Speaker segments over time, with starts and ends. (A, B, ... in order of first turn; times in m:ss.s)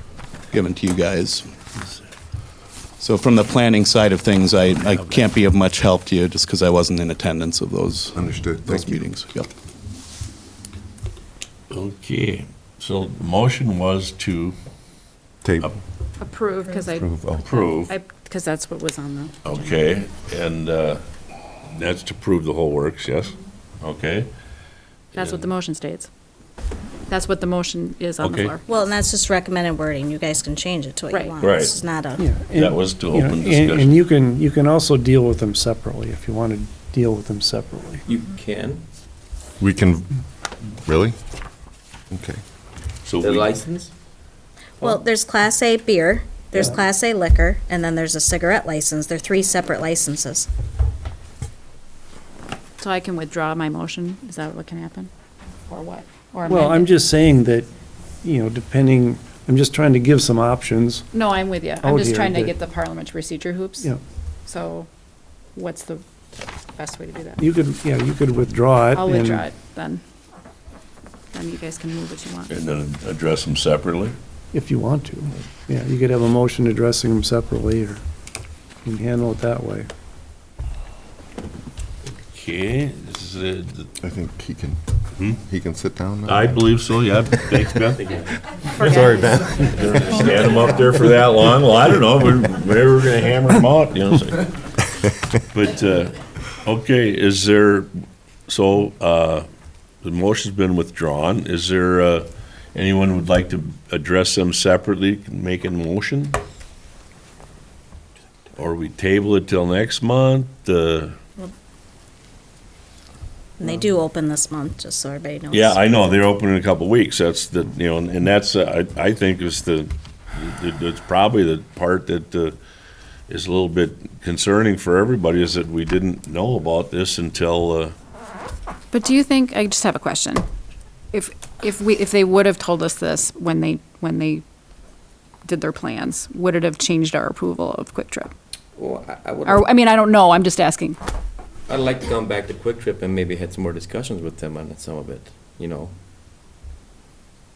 0:00.5-0:01.5 A
0:03.0-0:09.5 A
0:08.1-0:09.0 B
0:11.7-0:14.6 C
0:15.4-0:15.8 B
0:16.2-0:17.1 D
0:16.8-0:17.5 B
0:17.4-0:17.9 C
0:17.9-0:19.3 D
0:19.4-0:21.0 C
0:21.7-0:24.3 C
0:25.2-0:26.1 D
0:27.1-0:28.6 D
0:28.2-0:28.6 C
0:28.7-0:32.2 E
0:31.4-0:31.8 C
0:32.2-0:38.0 F
0:32.5-0:34.0 C
0:38.1-0:38.8 G
0:39.6-0:40.1 B
0:40.8-0:41.2 B
0:42.1-0:42.4 B
0:43.0-0:43.5 C
0:43.2-0:43.9 G
0:44.8-0:50.5 E
0:52.8-0:55.1 D
0:55.7-0:56.9 D
0:56.4-0:57.7 F
0:58.2-1:01.1 F
1:01.1-1:03.9 D
1:01.8-1:02.6 F
1:04.5-1:04.9 D
1:05.5-1:06.0 D
1:06.8-1:07.4 D
1:07.4-1:09.5 F
1:09.0-1:10.0 D
1:11.3-1:12.5 D
1:12.5-1:14.1 C
1:14.5-1:18.0 F
1:18.8-1:19.9 F
1:22.3-1:23.9 C
1:24.0-1:26.6 B
1:26.3-1:28.3 C
1:28.8-1:30.6 B
1:28.8-1:29.3 D
1:29.6-1:34.5 C
1:35.5-1:37.9 C
1:38.5-1:39.4 C
1:40.0-1:46.4 C
1:48.6-1:51.2 C
1:53.6-1:55.8 E
1:55.5-2:02.6 C
2:03.3-2:07.9 C
2:08.9-2:10.4 D
2:11.1-2:14.4 D
2:15.4-2:18.3 D
2:18.8-2:19.7 G
2:19.4-2:21.0 D
2:21.7-2:26.0 G